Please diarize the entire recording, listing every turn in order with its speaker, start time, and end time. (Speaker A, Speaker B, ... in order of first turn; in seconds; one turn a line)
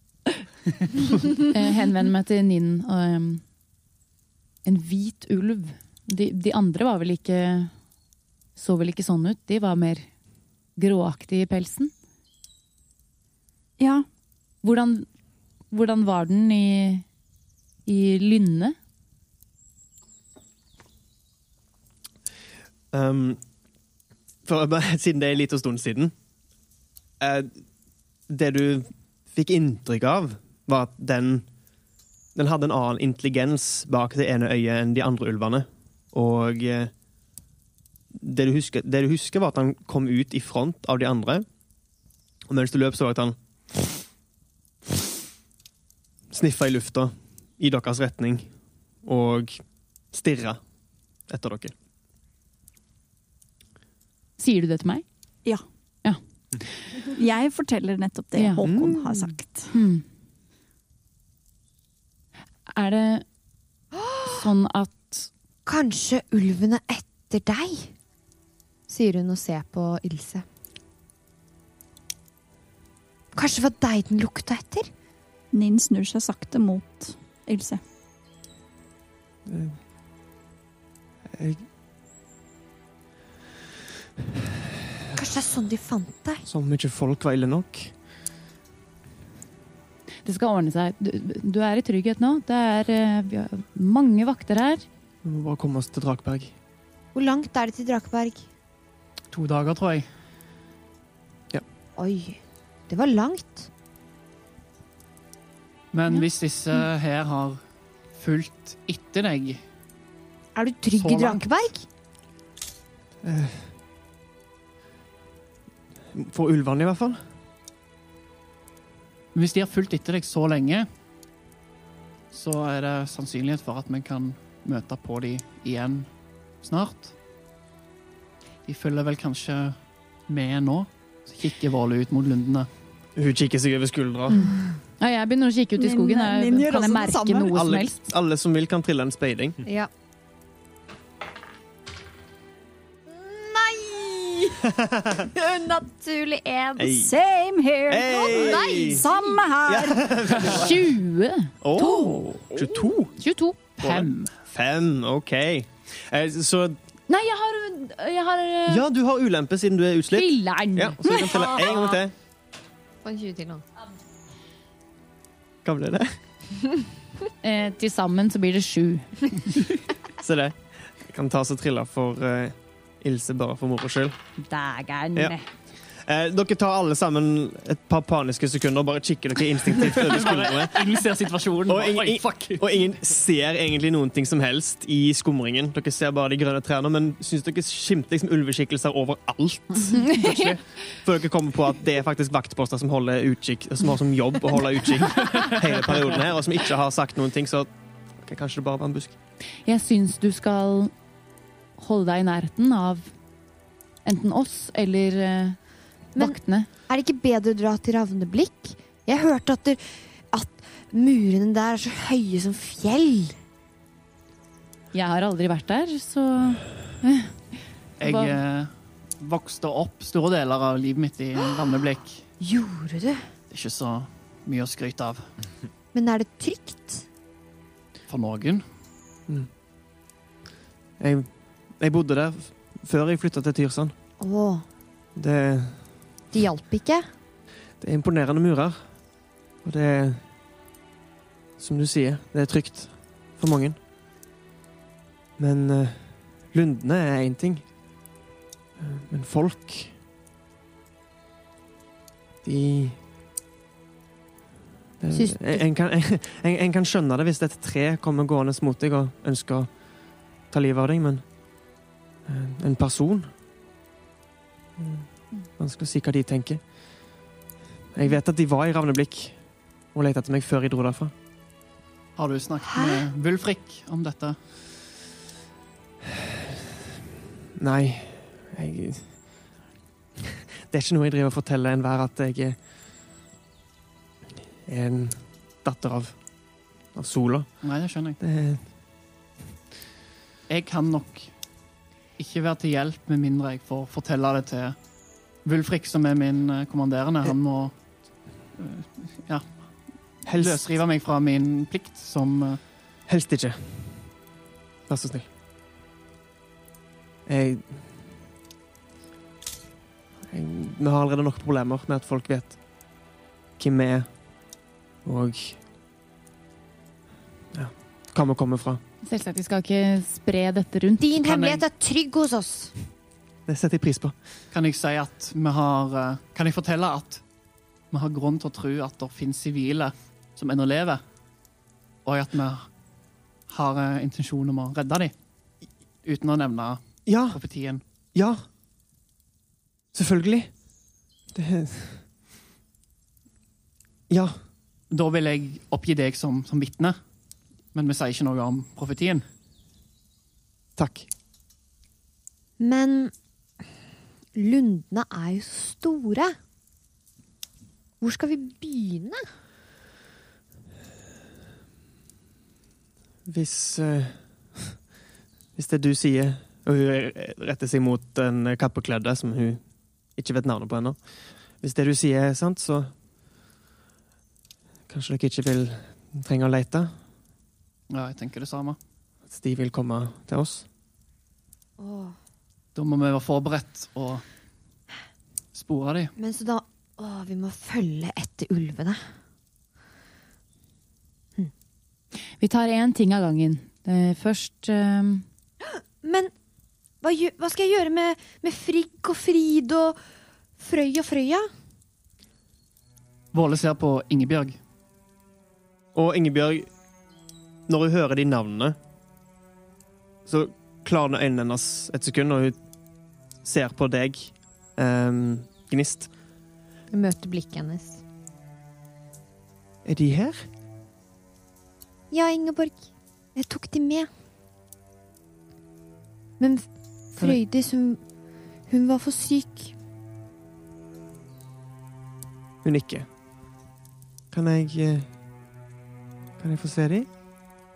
Speaker A: 1.5-3.5
Speaker A: 4.6-7.8
Speaker A: 8.6-10.2
Speaker A: 10.8-11.9
Speaker B: 13.8-14.1
Speaker A: 14.6-15.1
Speaker A: 15.7-17.1
Speaker A: 17.9-18.8
Speaker C: 22.9-23.5
Speaker C: 24.4-26.2
Speaker C: 27.2-27.6
Speaker C: 28.3-31.5
Speaker C: 32.4-36.9
Speaker C: 38.1-41.5
Speaker C: 42.5-44.0
Speaker C: 46.3-51.7
Speaker A: 54.4-56.9
Speaker B: 57.1-59.7
Speaker A: 58.4-60.1
Speaker C: 58.6-59.1
Speaker A: 62.7-63.3
Speaker D: 64.1-64.4
Speaker A: 64.3-65.3
Speaker D: 65.7-68.0
Speaker D: 68.9-70.4
Speaker D: 73.3-74.9
Speaker B: 75.5-77.8
Speaker C: 79.5-79.8
Speaker C: 81.3-81.7
Speaker D: 85.1-86.5
Speaker C: 86.5-88.0
Speaker A: 90.2-94.8
Speaker C: 95.2-96.6
Speaker D: 97.1-98.5
Speaker E: 99.3-100.1
Speaker D: 102.0-103.7
Speaker E: 105.9-107.6
Speaker E: 108.1-109.6
Speaker D: 110.5-111.9
Speaker E: 110.9-111.6
Speaker C: 113.2-113.7
Speaker C: 116.1-117.3
Speaker E: 119.3-120.9
Speaker E: 122.3-127.1
Speaker E: 128.7-132.7
Speaker C: 133.2-134.4
Speaker A: 134.3-138.0
Speaker B: 135.8-137.5
Speaker C: 137.5-139.6
Speaker D: 139.7-139.9
Speaker D: 143.1-144.7
Speaker C: 144.8-145.2
Speaker D: 145.3-147.0
Speaker C: 146.8-147.2
Speaker B: 146.9-150.3
Speaker C: 147.9-149.1
Speaker D: 148.1-149.4
Speaker C: 149.7-150.8
Speaker A: 150.4-151.5
Speaker C: 151.6-153.2
Speaker A: 153.2-153.6
Speaker E: 153.8-154.4
Speaker C: 153.8-156.8
Speaker A: 157.1-158.9
Speaker C: 158.7-162.1
Speaker A: 160.1-161.6
Speaker D: 163.0-163.7
Speaker C: 165.6-166.3
Speaker A: 167.4-169.5
Speaker C: 170.2-174.2
Speaker A: 174.4-175.5
Speaker C: 175.1-181.0
Speaker E: 180.0-182.7
Speaker C: 181.7-199.2
Speaker A: 199.6-200.9
Speaker A: 201.8-203.2
Speaker A: 204.0-206.7
Speaker D: 206.2-213.4
Speaker A: 214.9-218.4
Speaker E: 218.0-222.3
Speaker D: 222.4-223.3
Speaker E: 223.5-225.3
Speaker D: 225.9-227.1
Speaker E: 228.1-228.6
Speaker C: 231.0-233.9
Speaker D: 234.2-234.7
Speaker C: 235.2-236.2
Speaker D: 236.3-237.1
Speaker C: 237.8-240.3
Speaker C: 241.6-243.8
Speaker C: 245.4-247.7
Speaker C: 248.8-250.0
Speaker C: 252.4-253.0
Speaker C: 255.0-261.4
Speaker D: 255.1-255.7
Speaker C: 262.2-263.3
Speaker C: 264.8-267.2
Speaker C: 267.9-271.1
Speaker E: 272.2-274.4
Speaker D: 272.7-273.1
Speaker C: 277.6-279.6
Speaker C: 280.7-282.6
Speaker C: 284.6-288.7
Speaker E: 287.6-288.2
Speaker E: 290.5-302.6
Speaker C: 300.2-300.7
Speaker C: 303.1-304.3
Speaker C: 304.9-305.3
Speaker C: 307.3-308.0
Speaker C: 310.3-312.9
Speaker C: 313.6-315.6
Speaker C: 317.5-318.8
Speaker A: 319.0-321.1
Speaker D: 321.0-322.8
Speaker E: 321.2-321.6
Speaker C: 323.5-324.2
Speaker E: 324.5-327.3
Speaker E: 327.9-331.0
Speaker E: 332.0-337.8
Speaker C: 337.1-337.4
Speaker C: 338.1-338.4
Speaker C: 339.9-342.1
Speaker C: 344.1-344.4
Speaker E: 344.9-349.2
Speaker C: 350.8-351.1
Speaker D: 352.6-353.2
Speaker D: 354.4-356.3
Speaker D: 358.0-359.2
Speaker C: 363.2-364.8
Speaker C: 365.6-372.9
Speaker C: 374.9-377.0
Speaker E: 377.9-378.8
Speaker C: 379.3-380.7
Speaker D: 381.8-382.2
Speaker E: 382.8-384.2
Speaker E: 385.5-386.1
Speaker D: 386.2-389.0
Speaker A: 392.4-395.3
Speaker D: 396.0-396.4
Speaker D: 397.0-400.0
Speaker D: 400.6-401.5
Speaker E: 403.3-404.6
Speaker C: 405.9-406.8
Speaker C: 407.7-408.8
Speaker C: 410.2-416.2
Speaker D: 416.9-418.0
Speaker C: 419.8-420.5
Speaker D: 422.1-424.1
Speaker D: 426.4-429.8
Speaker C: 432.6-433.1
Speaker C: 434.3-435.1
Speaker C: 436.4-437.1